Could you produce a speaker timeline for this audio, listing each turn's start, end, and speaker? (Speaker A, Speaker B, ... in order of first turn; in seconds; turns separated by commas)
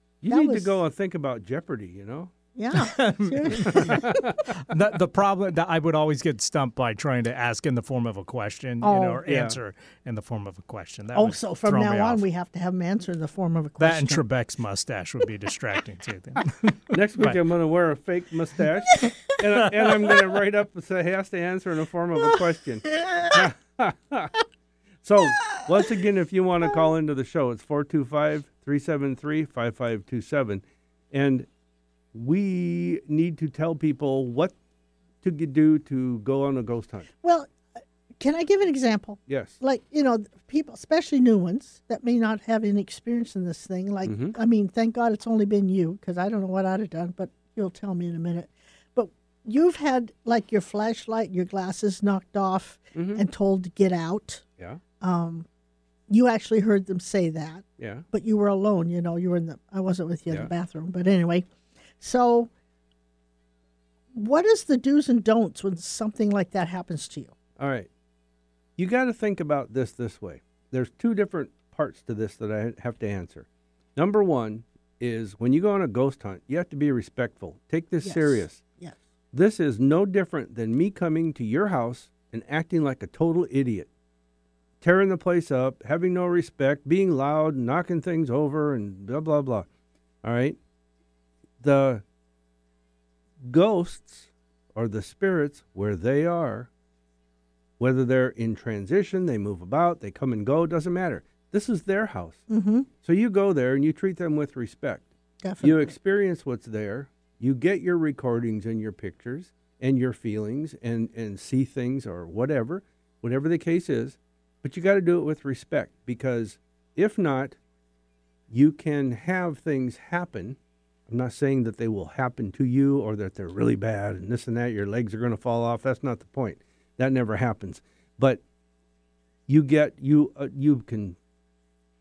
Speaker A: 0.2-2.3, Speaker B: 0.3-0.7, Speaker B: 2.5-4.2, Speaker C: 2.7-12.2, Speaker A: 3.6-4.4, Speaker B: 8.8-9.2, Speaker A: 9.2-9.6, Speaker B: 11.1-14.2, Speaker C: 13.8-17.4, Speaker A: 16.9-24.3, Speaker B: 22.9-23.4, Speaker A: 25.0-31.5, Speaker A: 32.1-34.5, Speaker A: 35.2-37.1, Speaker B: 37.2-37.5, Speaker B: 38.2-54.4, Speaker A: 39.3-39.6, Speaker A: 44.0-44.4, Speaker A: 52.9-53.2, Speaker B: 55.0-55.5, Speaker B: 56.1-61.5, Speaker A: 57.8-58.0, Speaker B: 62.0-62.5, Speaker B: 64.1-67.3, Speaker A: 67.6-67.9, Speaker A: 68.8-78.6, Speaker B: 78.0-79.0, Speaker A: 79.3-83.9, Speaker A: 84.8-89.7, Speaker A: 90.2-90.6, Speaker A: 91.6-92.0, Speaker A: 93.4-96.7, Speaker A: 97.8-102.4, Speaker B: 102.5-102.9, Speaker A: 103.0-105.1, Speaker B: 105.4-105.9, Speaker A: 105.6-117.6, Speaker A: 118.5-120.6, Speaker A: 121.1-128.4, Speaker A: 129.5-131.2